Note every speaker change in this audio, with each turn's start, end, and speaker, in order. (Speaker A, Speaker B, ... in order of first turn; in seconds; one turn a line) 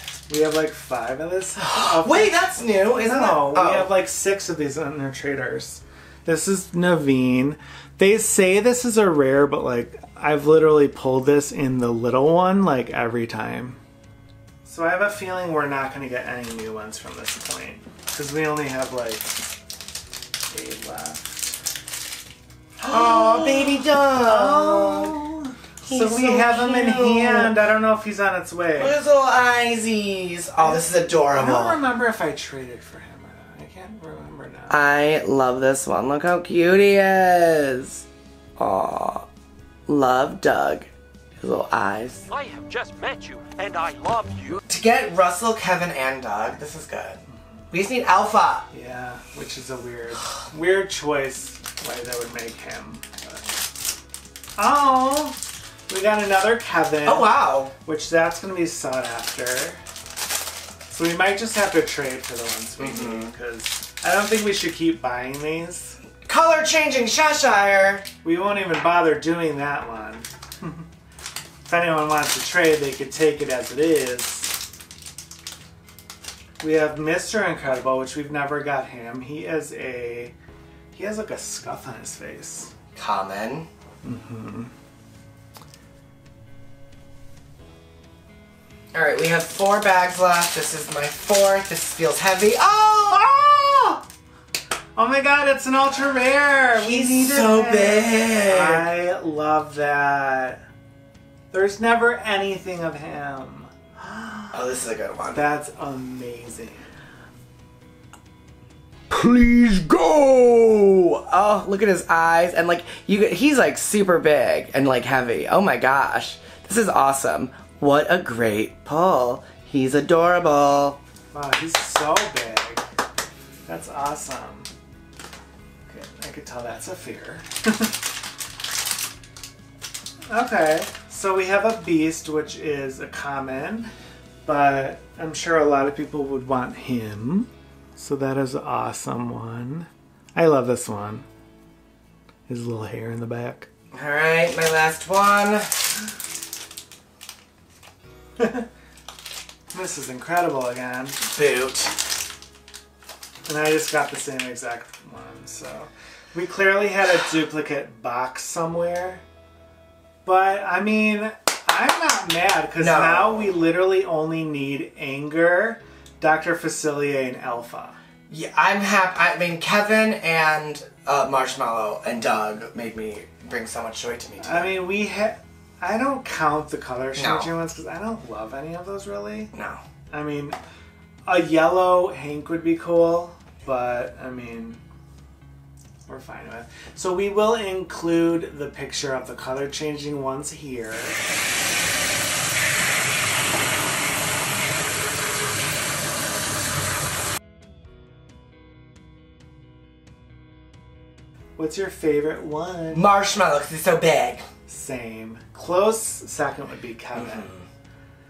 Speaker A: 0.3-13.8
Speaker B: 1.6-3.9
Speaker A: 14.6-19.4
Speaker A: 20.5-21.5
Speaker A: 22.8-29.0
Speaker B: 22.8-25.2
Speaker B: 25.8-27.6
Speaker B: 28.8-31.8
Speaker A: 30.6-34.8
Speaker B: 34.7-38.0
Speaker B: 38.6-39.3
Speaker B: 39.9-40.9
Speaker B: 41.4-42.3
Speaker C: 42.3-44.6
Speaker B: 44.7-47.2
Speaker B: 47.7-48.7
Speaker A: 48.7-53.5
Speaker A: 54.6-59.8
Speaker B: 57.0-57.7
Speaker A: 60.9-66.0
Speaker B: 62.8-63.3
Speaker B: 66.2-68.1
Speaker A: 68.2-70.8
Speaker A: 71.7-74.6
Speaker A: 76.6-80.3
Speaker A: 80.9-82.7
Speaker B: 82.9-83.7
Speaker A: 84.0-84.7
Speaker B: 88.9-93.3
Speaker A: 93.1-94.0
Speaker A: 95.0-100.6
Speaker B: 96.8-98.9
Speaker A: 101.5-104.6
Speaker B: 104.5-105.4
Speaker A: 105.3-106.9
Speaker B: 109.1-121.0
Speaker A: 121.3-122.8
Speaker A: 123.7-124.7
Speaker A: 125.9-128.0
Speaker A: 130.3-133.9
Speaker A: 134.4-141.2
Speaker A: 142.5-143.7
Speaker B: 143.9-145.7
Speaker A: 148.4-148.6
Speaker A: 149.7-151.2
Speaker B: 151.3-152.0
Speaker A: 153.4-159.2
Speaker A: 160.2-168.0
Speaker B: 162.8-163.6
Speaker B: 168.3-174.7
Speaker A: 174.4-179.5
Speaker B: 177.2-177.5
Speaker B: 179.5-179.8
Speaker A: 180.1-180.6
Speaker A: 181.2-184.8
Speaker A: 186.1-191.2
Speaker A: 201.6-203.1
Speaker B: 202.9-204.4
Speaker A: 204.7-207.5